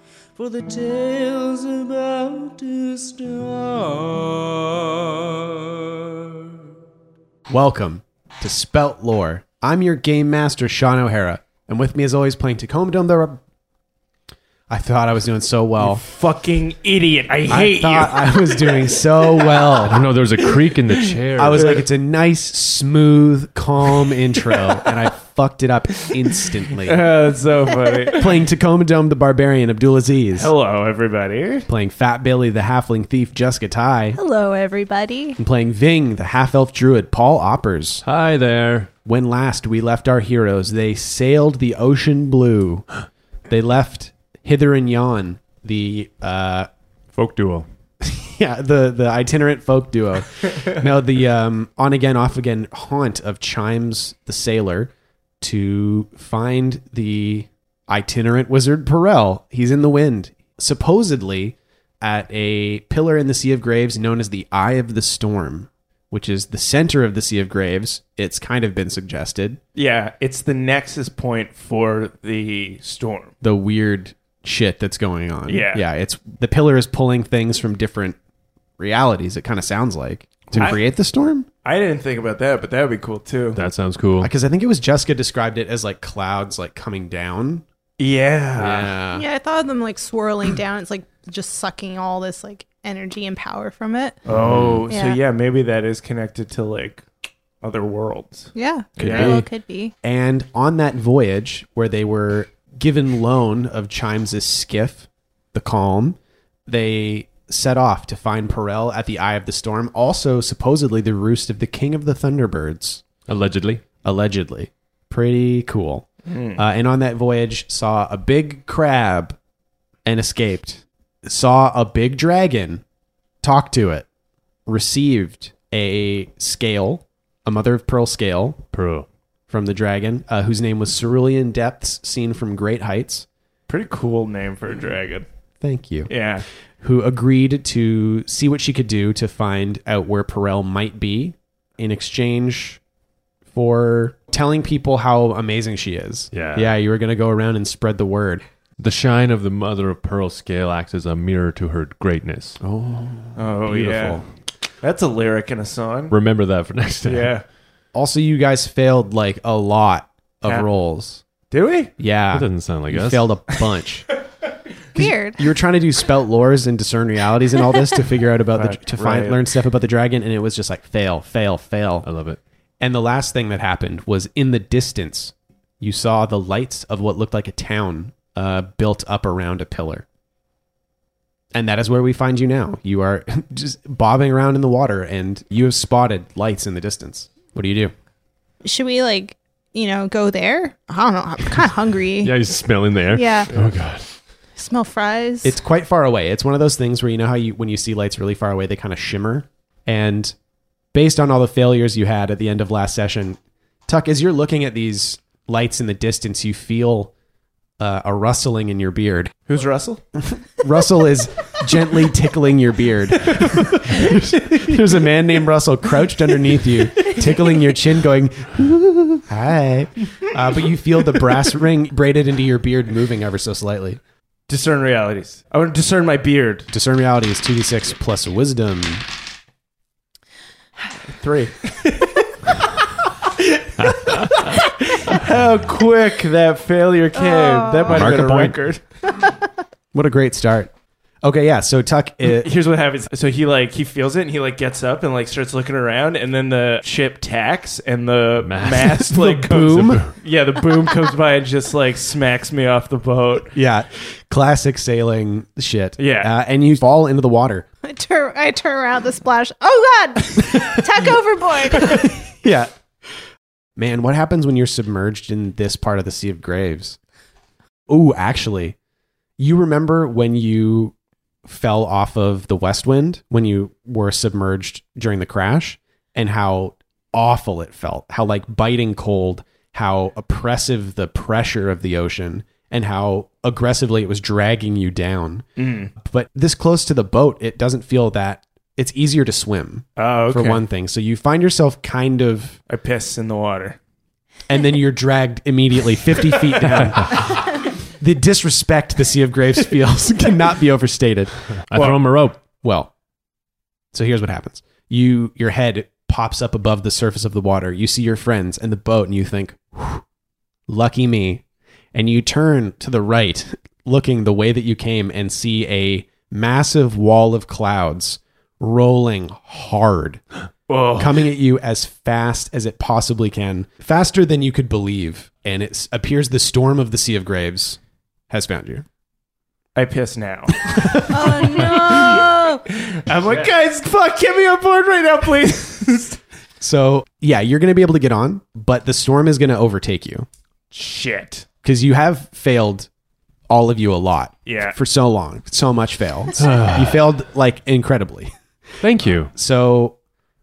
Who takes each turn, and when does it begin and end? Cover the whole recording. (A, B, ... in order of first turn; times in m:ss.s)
0:00.4-0:06.3 A
0:07.5-0:13.4 B
0:14.7-0:16.0 B
0:15.8-0:19.8 C
0:17.5-0:20.1 B
0:19.9-0:21.8 D
0:20.4-0:21.8 C
0:21.4-0:27.1 B
0:26.8-0:28.3 C
0:28.1-0:30.5 B
0:30.4-0:31.7 C
0:31.7-0:34.2 B
0:34.2-0:35.4 E
0:35.4-0:38.0 B
0:38.0-0:38.9 D
0:39.0-0:42.9 B
0:43.5-0:46.7 B
0:47.1-0:47.7 D
0:48.0-1:09.6 B
1:09.8-1:13.3 C
1:13.4-1:18.2 B
1:15.5-1:15.8 C
1:18.8-1:21.5 B
1:20.5-1:20.8 C
1:21.6-1:23.6 C
1:23.6-1:24.3 D
1:24.2-1:27.6 B
1:28.0-1:28.9 C
1:28.6-1:29.2 B
1:29.1-1:34.2 E
1:34.3-1:37.0 C
1:34.4-1:34.8 B
1:34.9-1:35.2 E
1:37.6-1:38.5 C
1:38.6-1:39.9 E
1:39.0-1:39.5 B
1:39.0-1:39.4 C
1:40.0-1:53.0 B
1:53.3-1:53.8 D
1:54.0-1:59.4 B
1:56.3-1:56.6 C
2:00.1-2:02.8 B
2:03.4-2:04.1 B
2:04.7-2:08.6 B
2:08.7-2:09.1 D
2:09.5-2:13.3 B
2:13.7-2:15.3 C
2:15.6-2:16.1 B
2:16.1-2:16.5 C
2:16.8-2:22.8 B
2:23.5-2:28.4 B
2:26.3-2:26.7 D
2:28.8-2:32.6 D
2:32.6-2:34.2 B
2:33.4-2:34.2 C
2:34.8-2:36.2 C
2:36.1-2:37.4 D
2:37.0-2:37.4 C
2:37.9-2:41.2 B
2:41.5-2:41.9 C
2:42.0-2:44.1 B
2:42.3-2:43.3 D
2:44.9-2:45.5 E
2:45.0-2:52.1 B
2:48.6-2:49.4 C
2:52.0-2:52.4 D
2:52.8-3:00.0 B
3:01.5-3:07.9 B
3:08.6-3:12.4 E
3:12.2-3:14.1 D
3:13.1-3:13.5 E
3:14.6-3:15.6 E
3:15.4-3:20.4 B
3:20.9-3:27.1 B
3:27.8-3:29.3 B
3:29.5-3:30.0 C
3:30.2-3:44.0 B
3:44.5-3:46.7 C
3:46.7-3:49.0 B
3:50.9-3:58.8 C
3:53.8-3:54.6 D
3:57.2-3:58.1 E
3:57.9-3:58.6 B
3:59.9-4:00.7 B
4:01.2-4:02.5 B
4:02.2-4:13.5 C
4:08.4-4:09.1 D
4:08.9-4:10.0 B
4:09.7-4:10.1 D
4:13.5-4:17.7 B
4:16.0-4:16.3 C
4:17.8-4:22.1 E
4:21.9-4:22.7 B
4:23.8-4:27.0 B
4:27.9-4:28.8 B
4:29.4-4:30.9 B
4:31.4-4:45.5 B
4:45.6-4:45.9 C
4:46.0-4:52.6 B
4:50.0-4:50.6 C
4:52.7-4:53.8 C
4:54.5-5:01.4 B
5:01.7-5:02.4 D
5:01.7-5:02.0 C
5:02.6-5:02.9 B
5:03.9-5:10.0 B
5:10.7-5:20.2 B
5:20.7-5:21.2 C
5:21.0-5:27.8 B
5:28.3-5:28.9 B
5:29.8-5:36.2 C
5:30.6-5:31.4 B
5:31.1-5:32.6 E
5:36.6-5:40.3 B
5:40.7-5:41.4 C
5:41.6-5:42.9 B
5:43.5-5:48.3 B
5:44.5-5:44.8 C
5:46.4-5:47.0 D
5:48.8-5:49.3 D
5:49.3-5:50.0 B